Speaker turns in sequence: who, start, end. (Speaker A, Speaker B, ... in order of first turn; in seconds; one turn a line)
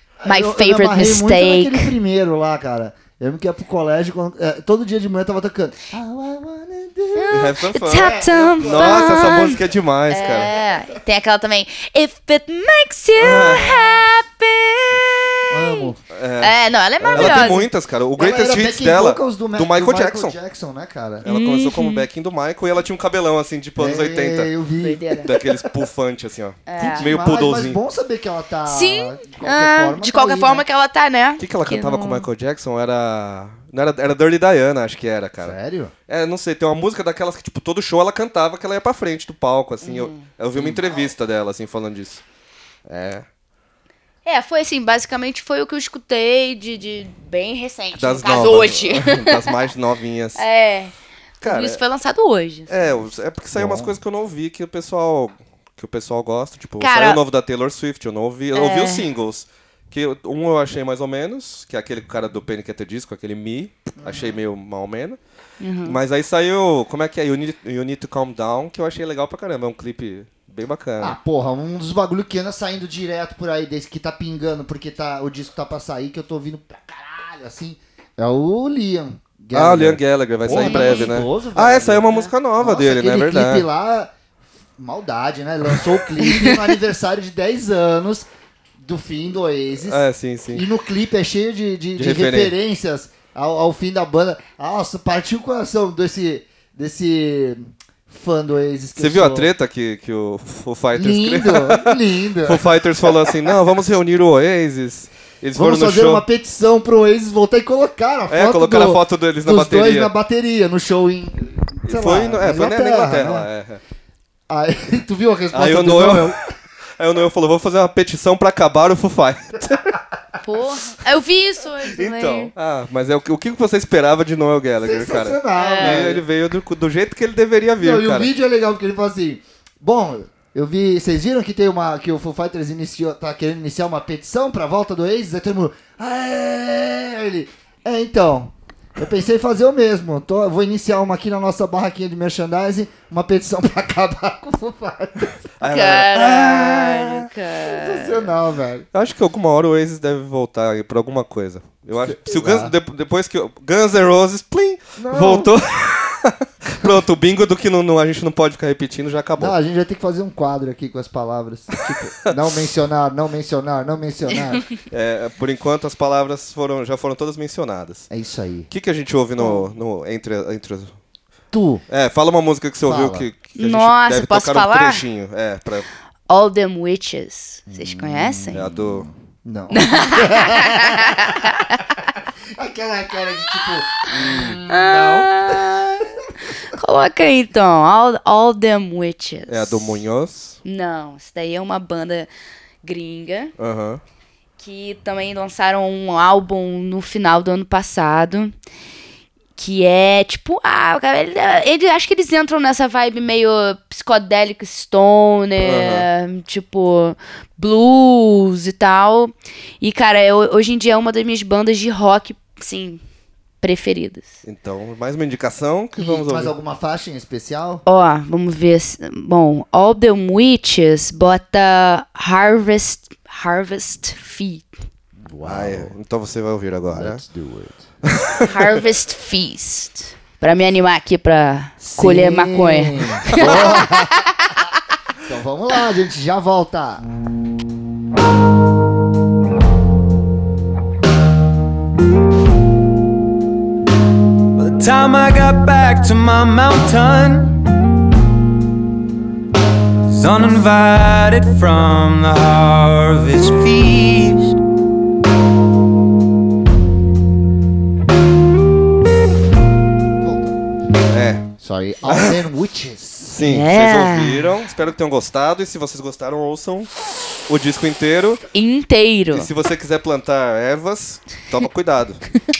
Speaker A: 0.2-9.7
Speaker B: 0.2-1.9
Speaker B: 7.1-9.6
Speaker C: 7.3-10.5
Speaker B: 10.1-17.7
Speaker A: 10.2-10.7
Speaker C: 13.2-13.8
Speaker A: 13.4-13.8
Speaker A: 15.5-16.0
Speaker C: 16.1-20.3
Speaker A: 17.1-17.6
Speaker A: 18.2-21.2
Speaker C: 21.2-24.5
Speaker B: 21.2-22.1
Speaker A: 23.8-25.3
Speaker B: 24.8-25.4
Speaker C: 25.2-27.8
Speaker B: 26.7-27.1
Speaker A: 26.8-30.6
Speaker B: 28.6-32.2
Speaker C: 31.4-35.6
Speaker A: 35.4-35.9
Speaker C: 36.1-42.2
Speaker B: 39.8-40.3
Speaker A: 40.5-41.1
Speaker C: 42.9-43.2
Speaker B: 44.2-49.7
Speaker C: 47.9-50.4
Speaker B: 50.4-53.0
Speaker C: 51.4-51.8
Speaker C: 52.7-65.2
Speaker A: 53.5-54.0
Speaker B: 56.8-57.2
Speaker B: 58.5-59.1
Speaker A: 64.0-64.4
Speaker B: 65.6-66.0
Speaker C: 65.8-71.2
Speaker A: 71.0-84.1
Speaker C: 79.5-83.7
Speaker B: 80.5-81.1
Speaker A: 84.8-99.5
Speaker B: 86.2-86.5
Speaker C: 89.8-90.6
Speaker C: 92.0-92.5
Speaker C: 99.0-106.2
Speaker A: 100.9-103.5
Speaker A: 105.5-113.5
Speaker C: 108.3-110.1
Speaker C: 111.8-113.8
Speaker A: 114.5-116.4
Speaker C: 115.5-116.4
Speaker C: 117.0-120.0
Speaker B: 120.4-122.5
Speaker C: 121.8-128.3
Speaker A: 124.8-126.2
Speaker B: 125.5-126.2
Speaker A: 127.8-145.4
Speaker C: 145.6-147.3
Speaker B: 145.6-148.3
Speaker A: 147.7-148.8
Speaker C: 148.9-159.5
Speaker A: 152.0-152.7
Speaker A: 155.0-155.5
Speaker A: 159.4-164.6
Speaker C: 161.8-162.3
Speaker C: 164.9-168.1
Speaker A: 168.1-168.7
Speaker C: 168.7-170.9
Speaker B: 169.4-169.7
Speaker A: 171.5-171.8
Speaker C: 171.9-175.9
Speaker A: 172.8-173.2
Speaker B: 173.6-175.0
Speaker B: 176.3-178.6
Speaker A: 177.7-181.7
Speaker C: 178.5-179.1
Speaker B: 179.7-182.1
Speaker A: 182.5-185.6
Speaker B: 183.6-190.0
Speaker C: 184.2-184.6
Speaker C: 189.5-190.6
Speaker B: 190.6-192.3
Speaker B: 192.8-193.5
Speaker C: 193.6-194.0
Speaker B: 194.6-198.5
Speaker B: 199.6-213.0
Speaker C: 205.6-206.1
Speaker B: 213.6-214.3
Speaker C: 214.4-216.5
Speaker A: 216.0-217.8
Speaker B: 217.8-224.7
Speaker A: 225.2-225.9
Speaker C: 225.4-227.2
Speaker A: 226.9-227.8
Speaker C: 228.0-228.5
Speaker B: 228.4-234.8
Speaker A: 231.8-234.6
Speaker A: 235.2-237.0
Speaker D: 244.5-247.7
Speaker D: 250.1-254.6
Speaker A: 260.2-260.6
Speaker C: 261.1-261.5
Speaker A: 261.6-263.4
Speaker C: 262.1-262.4
Speaker C: 263.3-266.9
Speaker B: 263.4-264.5
Speaker C: 267.5-268.4
Speaker B: 268.5-269.5
Speaker C: 269.3-272.2